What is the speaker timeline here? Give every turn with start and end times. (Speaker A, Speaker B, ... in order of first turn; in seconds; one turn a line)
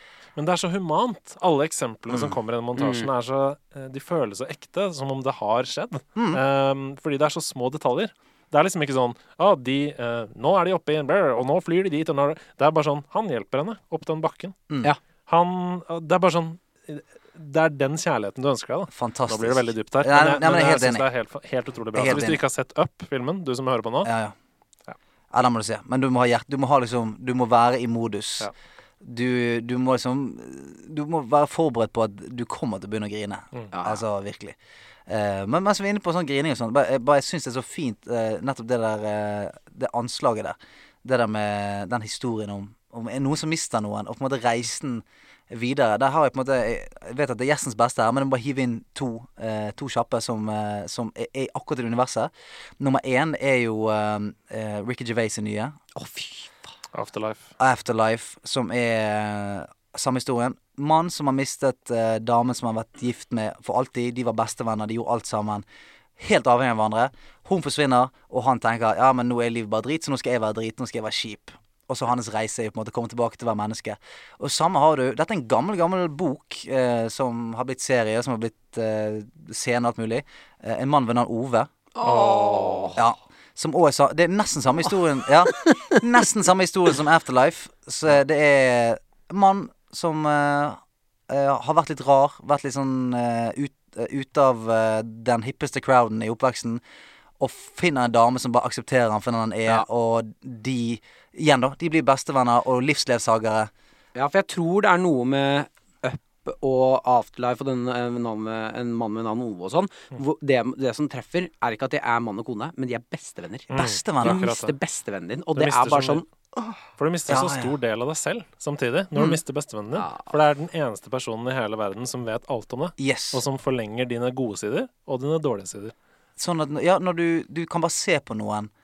Speaker A: 0.4-14.6
Speaker B: 2.1-2.4
Speaker C: 2.8-3.1
Speaker B: 6.1-6.4
Speaker A: 15.3-24.1
Speaker B: 18.9-21.1
Speaker B: 21.9-22.4
Speaker B: 24.0-24.3
Speaker B: 25.3-55.8
Speaker C: 33.7-34.0
Speaker C: 56.0-56.5
Speaker A: 56.9-57.5
Speaker B: 57.6-65.6
Speaker B: 66.2-81.7
Speaker C: 82.0-83.0
Speaker A: 82.0-83.0
Speaker B: 83.0-96.8
Speaker C: 85.5-85.8
Speaker B: 97.4-103.7
Speaker C: 104.1-116.3
Speaker A: 113.7-114.8
Speaker B: 113.7-114.4
Speaker A: 115.5-116.2
Speaker A: 117.0-125.9
Speaker B: 117.3-117.7
Speaker C: 120.0-120.3
Speaker B: 123.0-123.4
Speaker B: 126.4-128.7